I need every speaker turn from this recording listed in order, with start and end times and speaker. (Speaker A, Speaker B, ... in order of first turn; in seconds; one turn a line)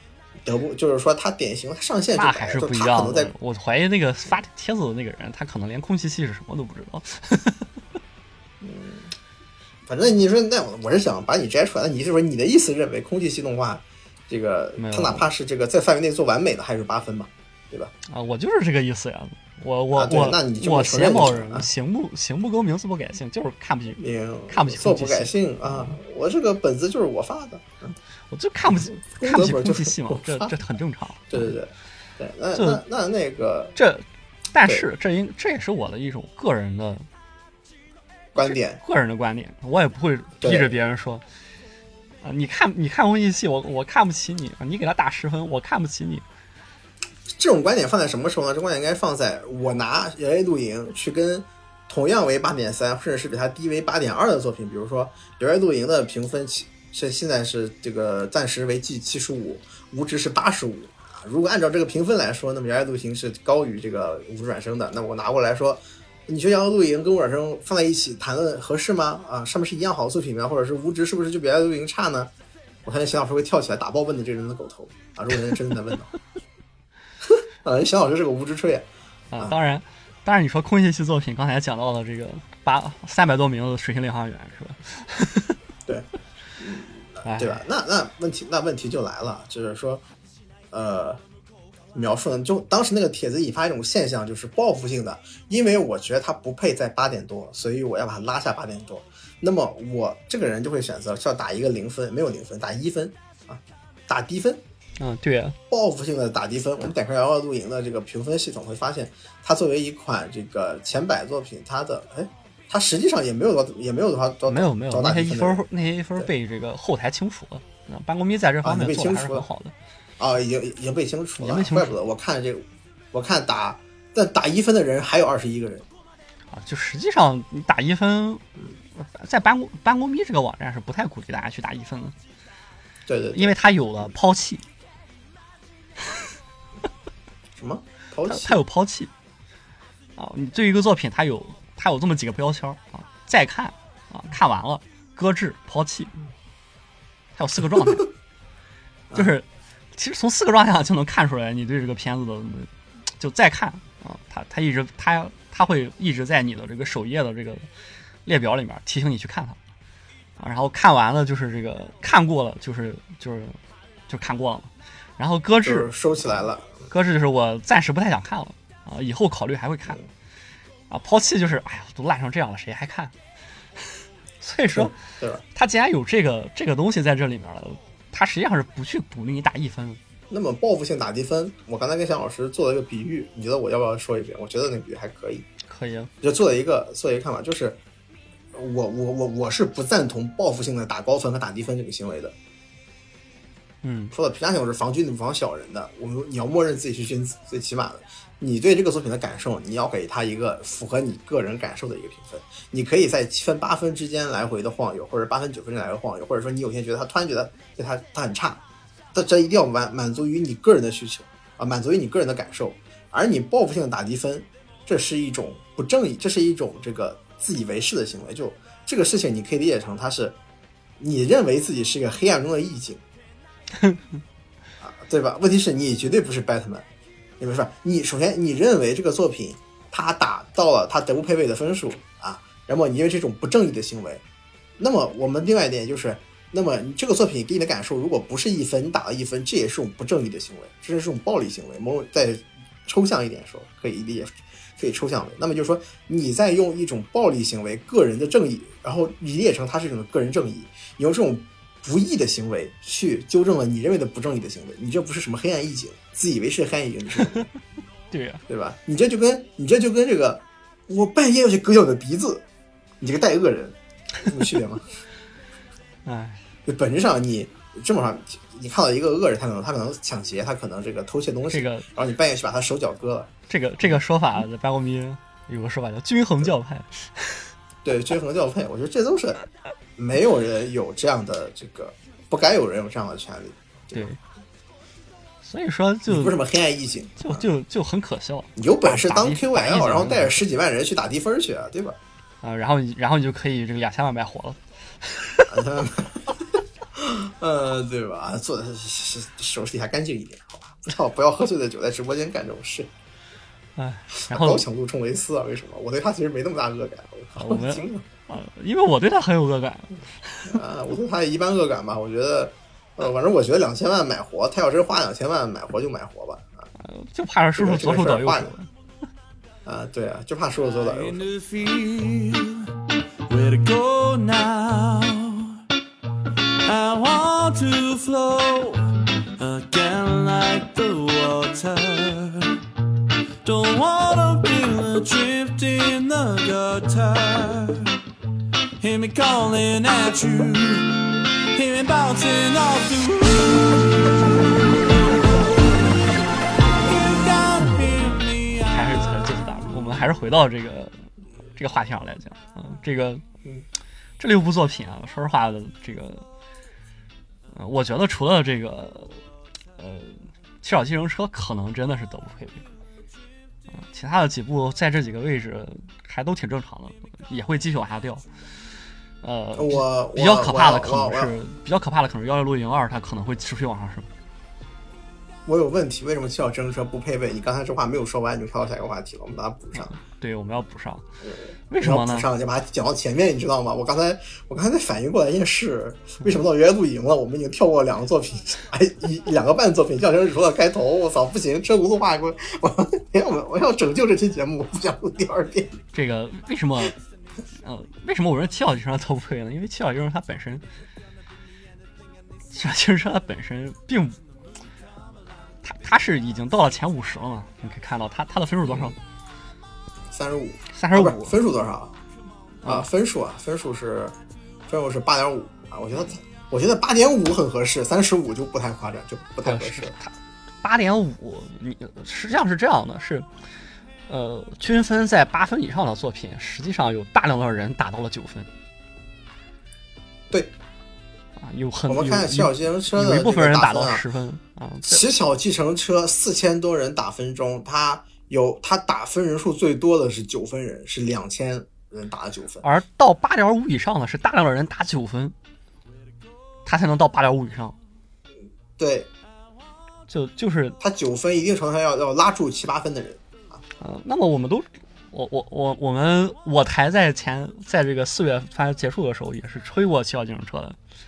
Speaker A: 0.4-3.3
Speaker B: 2.1-7.7
Speaker A: 8.6-9.2
Speaker A: 9.8-17.9
Speaker B: 14.8-15.3
Speaker B: 18.1-25.9
Speaker A: 19.9-21.7
Speaker A: 24.0-27.9
Speaker B: 28.3-31.5
Speaker A: 28.7-30.5
Speaker A: 31.3-33.8
Speaker B: 32.5-32.8
Speaker B: 33.8-37.1
Speaker A: 38.3-38.8
Speaker B: 38.4-41.2
Speaker A: 40.4-40.7
Speaker B: 42.2-46.2
Speaker A: 47.4-72.3
Speaker A: 72.8-76.1
Speaker A: 77.2-78.9
Speaker B: 79.3-85.6
Speaker A: 86.6-90.0
Speaker B: 87.2-87.6
Speaker A: 90.7-91.2
Speaker A: 91.9-104.6
Speaker B: 105.0-105.6
Speaker A: 105.7-115.7
Speaker B: 114.5-119.7
Speaker A: 118.6-119.5
Speaker A: 120.2-125.9
Speaker B: 121.4-121.9
Speaker B: 126.5-128.4
Speaker B: 129.0-132.2
Speaker A: 133.1-133.6
Speaker B: 133.3-134.7
Speaker A: 137.6-138.6
Speaker B: 138.3-139.1
Speaker B: 140.2-146.1
Speaker B: 147.4-148.1
Speaker B: 149.1-157.7
Speaker B: 158.2-159.6
Speaker B: 160.4-163.6
Speaker B: 164.1-170.0
Speaker A: 165.6-166.7
Speaker B: 170.9-173.1
Speaker B: 174.4-175.0
Speaker A: 174.7-175.4
Speaker B: 175.5-180.0
Speaker A: 180.3-185.5
Speaker B: 185.7-186.1
Speaker A: 186.2-187.8
Speaker A: 188.5-192.3
Speaker B: 193.8-194.1
Speaker A: 194.1-208.6
Speaker A: 209.1-220.4
Speaker A: 221.0-223.0
Speaker A: 224.8-226.8
Speaker A: 227.4-234.2
Speaker A: 234.8-257.5
Speaker B: 258.1-258.4
Speaker A: 258.5-262.4
Speaker A: 263.0-264.8
Speaker B: 266.1-266.4
Speaker A: 266.7-273.3
Speaker B: 271.5-271.9
Speaker B: 273.5-277.4
Speaker A: 277.8-284.1
Speaker B: 283.9-284.2
Speaker B: 285.4-286.4
Speaker A: 286.1-287.4
Speaker B: 287.2-290.4
Speaker A: 288.6-292.0
Speaker B: 292.4-295.6
Speaker A: 295.5-296.4
Speaker A: 296.9-302.9
Speaker B: 303.8-304.6
Speaker A: 304.2-308.1
Speaker B: 307.4-310.6
Speaker A: 310.5-316.7
Speaker B: 316.8-318.7
Speaker A: 317.6-318.6
Speaker A: 319.6-321.2
Speaker C: 320.8-322.7
Speaker C: 323.3-325.5
Speaker C: 326.7-332.6
Speaker C: 333.4-338.0
Speaker C: 338.8-344.0
Speaker C: 345.0-345.6
Speaker C: 346.8-349.1
Speaker B: 348.7-350.9
Speaker B: 351.6-353.2
Speaker B: 354.2-356.2
Speaker B: 357.5-359.2
Speaker B: 359.8-362.6
Speaker B: 363.7-368.2
Speaker B: 369.2-374.1
Speaker A: 369.6-371.4
Speaker A: 375.5-379.9
Speaker B: 379.8-381.1
Speaker A: 381.2-395.8
Speaker B: 381.7-382.3
Speaker B: 395.9-397.0
Speaker B: 397.6-400.6
Speaker B: 402.5-404.2
Speaker B: 405.6-409.0
Speaker A: 408.7-408.9
Speaker A: 410.1-411.9
Speaker B: 410.7-411.4
Speaker A: 412.6-414.1
Speaker A: 414.7-419.9
Speaker B: 419.4-423.3
Speaker B: 424.1-428.5
Speaker B: 431.4-435.0
Speaker A: 431.9-434.0
Speaker A: 434.9-442.6
Speaker B: 442.6-445.4
Speaker B: 446.6-447.8
Speaker A: 448.8-449.1
Speaker B: 450.1-450.8
Speaker A: 450.8-453.6
Speaker B: 453.8-460.8